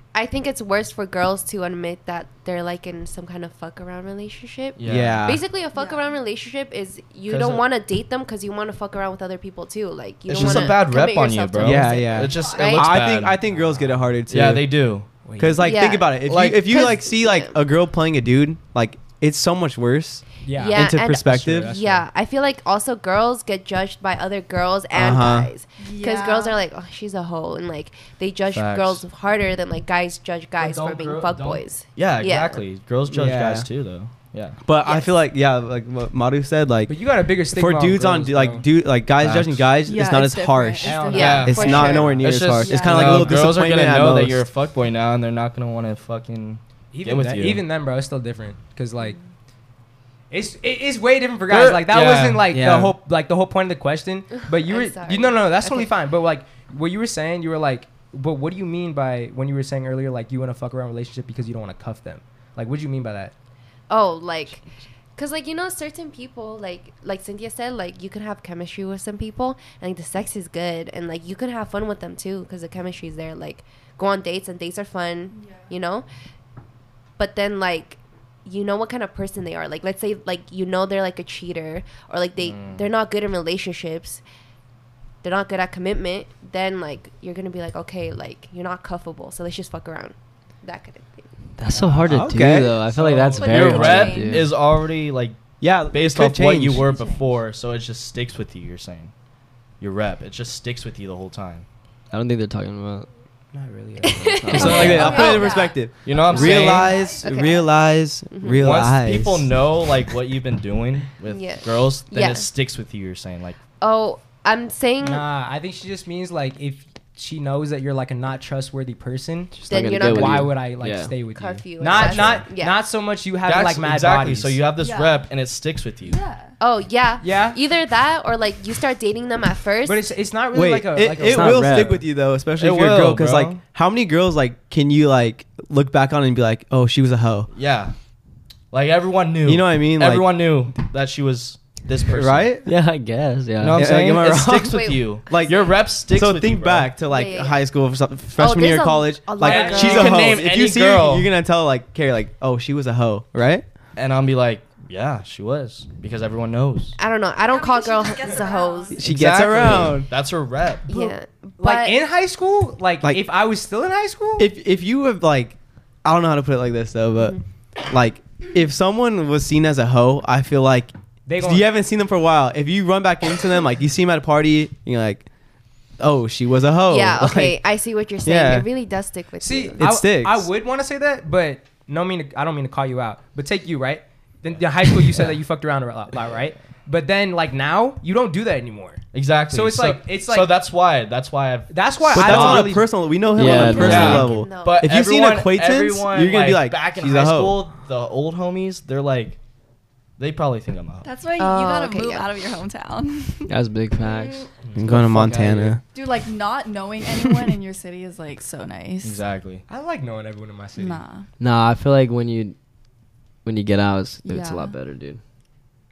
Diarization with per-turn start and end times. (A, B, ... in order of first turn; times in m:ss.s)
0:00.1-0:13.0 A
0:04.8-0:05.3 B
0:04.9-0:05.4 C
0:05.7-0:06.1 D
0:07.2-0:07.6 B
0:10.3-0:13.4 B
0:11.6-0:21.8 C
0:12.1-0:12.7 D
0:14.3-0:15.1 B
0:15.2-0:15.6 E
0:15.6-0:17.6 A
0:16.2-0:16.9 B
0:20.4-0:20.9 E
0:20.6-0:32.6 A
0:21.5-0:22.1 E
0:24.9-0:25.5 C
0:25.8-0:26.6 D
0:28.5-0:29.0 B
0:30.6-0:34.6 B
0:33.1-0:33.6 C
0:34.6-0:44.4 C
0:34.8-0:35.1 A
0:36.9-0:38.6 E
0:39.2-0:39.7 B
0:39.9-0:43.2 D
0:40.8-0:41.9 E
0:41.1-0:42.3 A
0:41.1-0:47.6 B
0:46.9-0:49.2 E
0:50.3-1:03.3 E
0:51.5-0:52.5 B
0:52.5-0:53.0 C
0:54.5-0:55.9 A
1:03.9-1:04.6 A
1:05.2-1:16.1 A
1:15.3-1:15.7 D
1:17.2-1:24.2 A
1:22.4-1:22.9 B
1:25.2-1:31.3 A
1:31.6-1:34.5 F
1:31.8-1:39.1 B
1:32.1-1:32.8 C
1:33.3-1:34.5 D
1:35.6-1:36.9 C
1:36.7-1:37.4 D
1:39.8-1:41.6 B
1:42.1-1:43.1 F
1:43.5-1:44.3 E
1:44.0-1:45.6 A
1:44.2-1:45.1 F
1:44.5-1:49.5 C
1:44.6-1:47.5 D
1:44.7-1:45.1 B
1:46.0-1:47.0 B
1:46.4-1:47.7 A
1:48.3-1:48.8 A
1:48.5-1:53.6 B
1:51.3-1:52.5 A
1:53.8-1:55.2 A
1:55.0-2:04.6 E
1:59.6-2:01.2 F
1:59.7-2:00.6 A
2:01.3-2:02.8 A
2:02.0-2:02.3 B
2:03.4-2:06.2 B
2:04.8-2:05.3 D
2:06.0-2:06.6 D
2:06.6-2:10.1 A
2:07.2-2:07.6 E
2:09.8-2:12.0 E
2:10.5-2:17.5 C
2:11.2-2:12.0 F
2:12.6-2:13.6 B
2:17.5-2:17.9 B
2:18.7-2:22.6 B
2:19.4-2:20.3 C
2:22.1-2:22.7 C
2:22.6-2:23.9 F
2:23.6-2:26.9 B
2:23.7-2:33.6 C
2:24.6-2:25.8 A
2:27.0-2:27.6 A
2:28.4-2:30.4 A
2:29.4-2:30.1 E
2:29.6-2:31.3 B
2:34.0-2:37.0 B
2:37.0-2:39.1 A
2:37.5-2:39.0 D
2:39.0-2:40.1 C
2:39.0-2:40.9 B
2:40.9-2:42.0 A
2:41.6-2:44.5 E
2:44.4-2:55.2 C
2:51.2-2:51.7 E
2:56.0-2:57.6 C
2:56.9-2:59.8 A
2:58.2-2:58.7 C
2:59.4-3:10.5 E
2:59.8-3:00.5 C
3:09.1-3:12.8 B
3:11.7-3:12.9 E
3:12.1-3:17.6 C
3:13.3-3:14.3 F
3:13.4-3:14.9 A
3:13.5-3:14.2 D
3:13.7-3:19.4 B
3:20.2-3:21.1 B
3:21.0-3:23.5 D
3:21.4-3:22.3 A
3:23.5-3:24.5 F
3:24.6-3:25.8 B
3:24.8-3:25.8 C
3:25.9-3:29.2 D
3:29.0-3:29.6 B
3:29.7-3:31.0 E
3:30.8-3:31.3 D
3:31.4-3:32.6 F
3:33.4-3:35.2 F
3:34.2-3:34.7 D